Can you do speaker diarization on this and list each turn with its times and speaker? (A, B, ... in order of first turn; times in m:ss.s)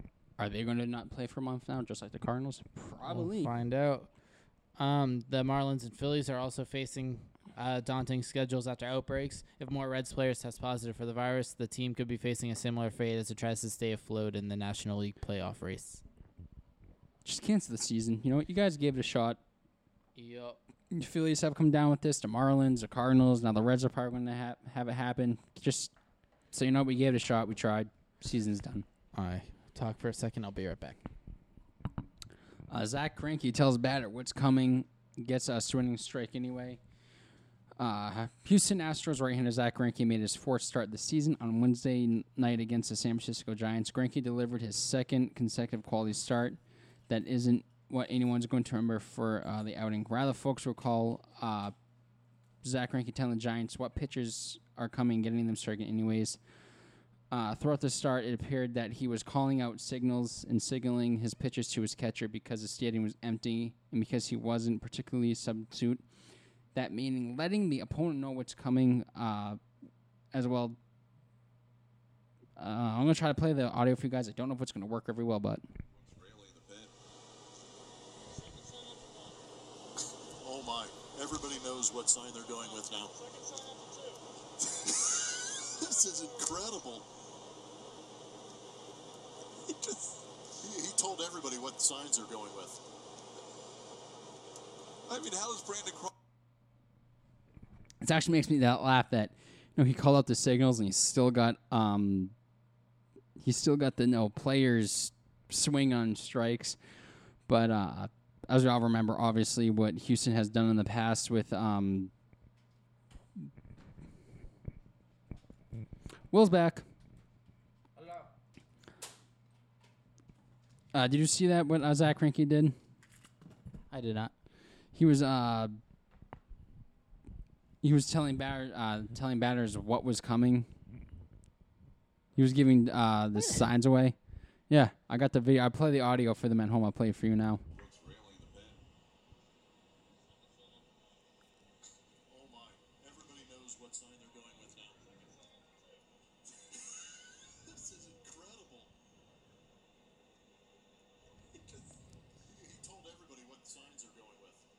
0:00.4-0:03.5 A
0:03.1-0:04.1 B
0:04.8-0:16.0 B
0:17.2-0:19.4 A
0:20.2-0:20.6 B
0:20.9-0:25.9 A
0:26.5-0:28.8 A
0:29.1-0:31.0 B
0:32.7-0:36.8 A
0:37.8-0:51.7 A
0:52.6-0:56.4 A
0:57.3-1:06.0 A
1:06.7-1:09.6 A
1:10.3-1:10.8 A
1:12.6-1:15.6 A
1:15.9-1:16.9 C
1:18.2-1:19.4 C
1:20.4-1:27.1 C
1:29.6-1:32.8 C
1:35.1-1:36.1 C
1:38.0-1:42.3 A
1:43.4-1:46.8 A
1:47.5-1:52.1 A
1:56.3-1:56.8 A
2:00.9-2:02.7 A
2:03.9-2:04.3 B
2:04.9-2:05.7 A
2:07.8-2:10.7 A
2:12.4-2:14.2 A
2:14.7-2:17.6 A
2:17.7-2:18.8 C
2:20.4-2:20.9 C
2:22.3-2:26.0 C
2:26.5-2:28.9 C
2:31.5-2:31.9 C
2:32.4-2:34.6 C